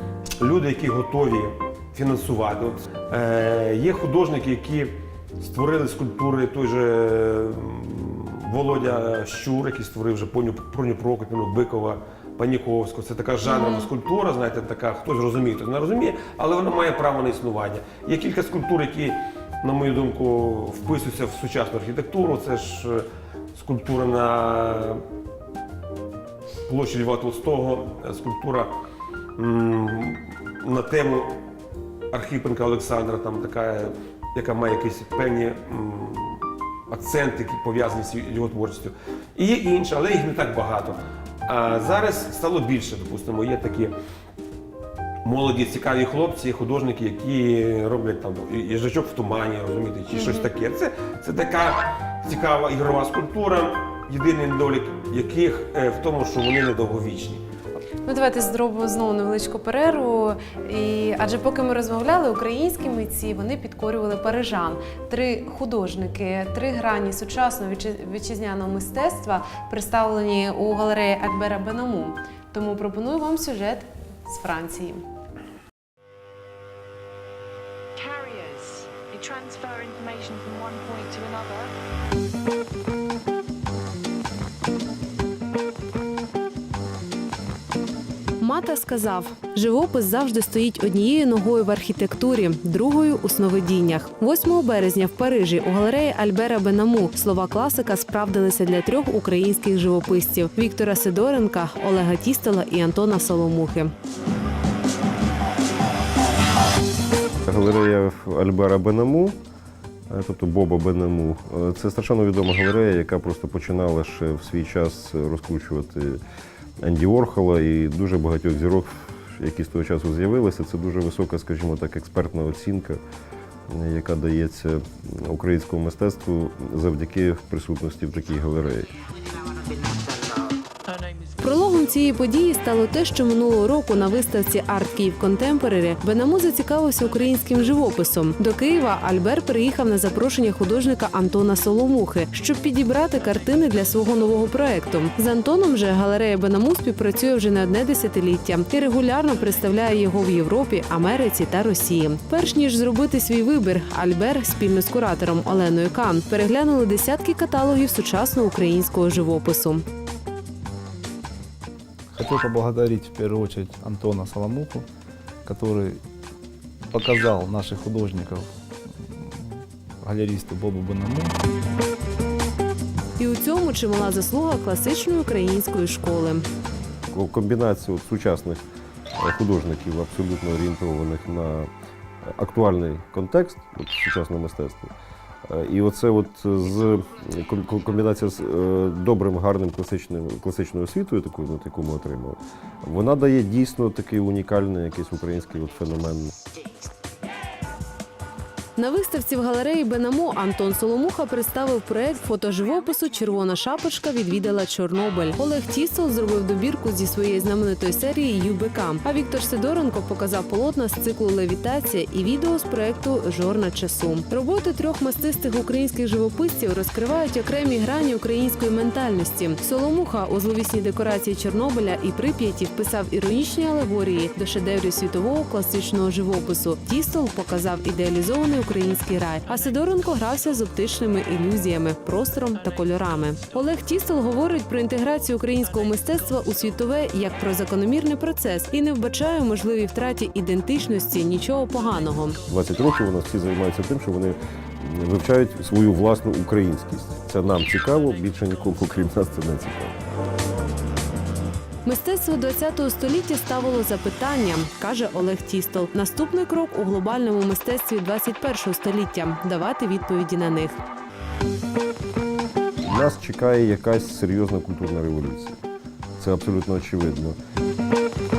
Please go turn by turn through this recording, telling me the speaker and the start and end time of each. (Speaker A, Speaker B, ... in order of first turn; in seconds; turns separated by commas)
Speaker A: 0.4-25.0, Speaker B: 13.5-13.9, Speaker A: 26.6-28.7, Speaker A: 29.4-31.4, Speaker A: 32.1-43.9, Speaker A: 45.2-57.4, Speaker B: 50.1-50.5, Speaker B: 58.0-75.0, Speaker C: 78.0-81.7, Speaker B: 88.4-103.9, Speaker D: 107.5-109.4, Speaker D: 110.1-116.2, Speaker D: 116.8-123.0, Speaker D: 123.7-128.9, Speaker B: 131.4-159.8, Speaker E: 162.1-164.8, Speaker E: 165.4-166.0, Speaker E: 166.9-168.5, Speaker E: 170.0-171.3, Speaker B: 173.2-176.4, Speaker D: 177.1-178.6, Speaker D: 179.1-181.7, Speaker D: 182.3-184.9, Speaker D: 185.5-196.3, Speaker B: 198.8-242.4, Speaker D: 242.5-250.0, Speaker B: 251.8-260.8, Speaker D: 262.8-265.6, Speaker D: 266.2-267.4